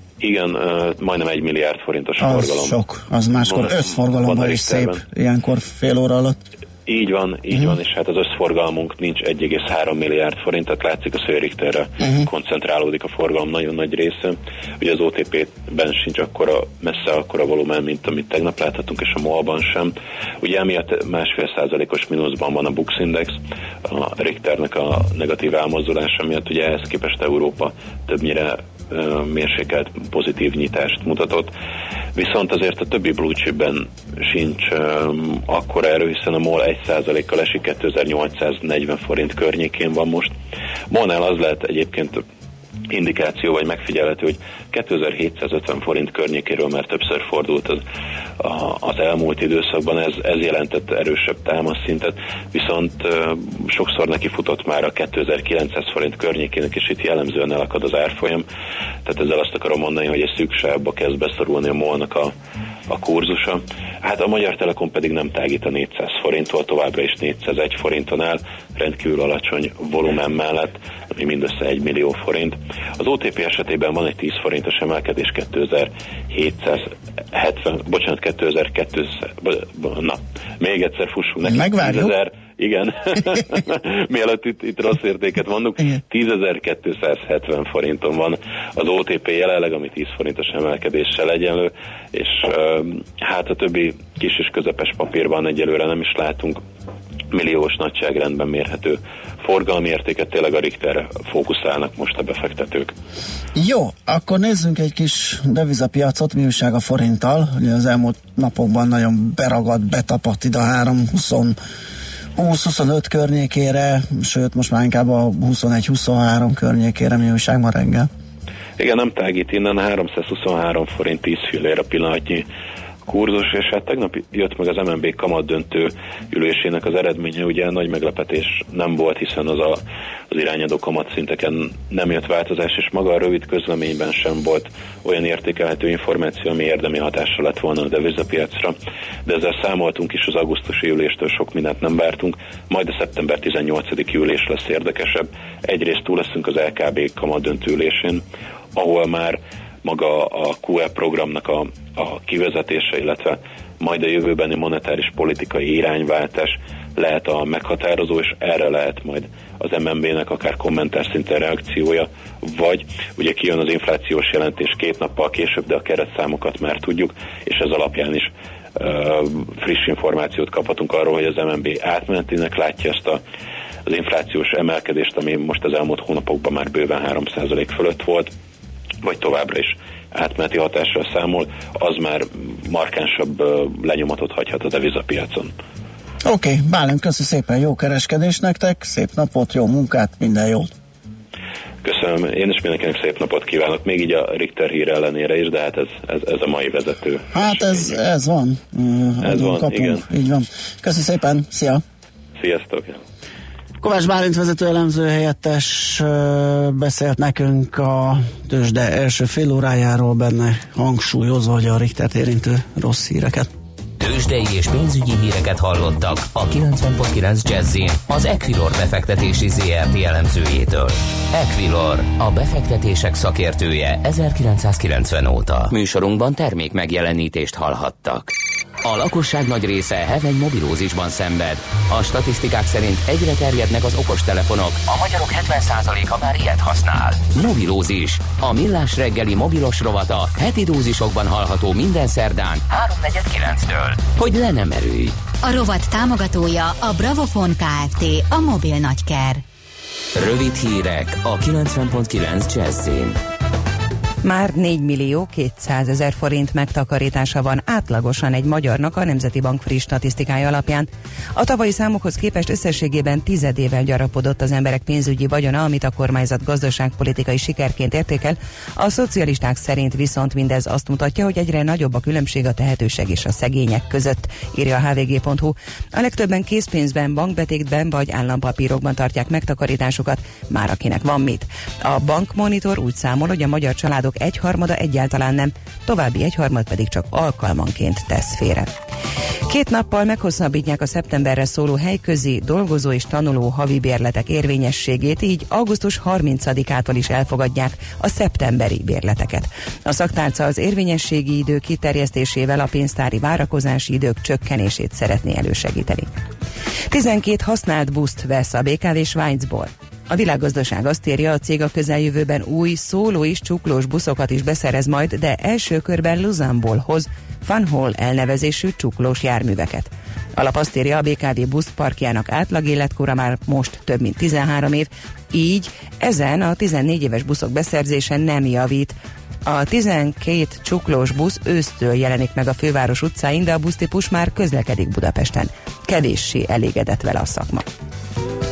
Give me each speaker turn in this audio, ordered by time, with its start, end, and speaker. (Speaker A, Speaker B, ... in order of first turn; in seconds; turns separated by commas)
Speaker A: 0.2-2.8, Speaker B: 2.2-6.4, Speaker A: 3.4-5.0, Speaker A: 6.9-31.5, Speaker B: 12.0-12.3, Speaker A: 32.1-40.3, Speaker A: 40.9-42.2, Speaker A: 42.9-47.8, Speaker A: 48.4-58.5, Speaker A: 59.0-62.3, Speaker A: 62.9-96.6, Speaker B: 81.4-82.1, Speaker A: 97.3-102.9, Speaker B: 103.5-111.6, Speaker B: 112.3-118.1, Speaker A: 118.8-122.5, Speaker A: 123.1-148.2, Speaker A: 148.8-173.2, Speaker A: 173.9-178.3, Speaker A: 179.0-185.5, Speaker B: 186.2-190.7, Speaker A: 191.8-198.0, Speaker B: 197.3-201.8, Speaker A: 199.2-200.0, Speaker A: 202.4-203.0, Speaker B: 203.8-213.5, Speaker C: 214.0-245.2, Speaker D: 245.4-249.4, Speaker C: 250.2-253.2, Speaker E: 254.2-288.7, Speaker E: 289.5-306.1, Speaker E: 306.9-337.7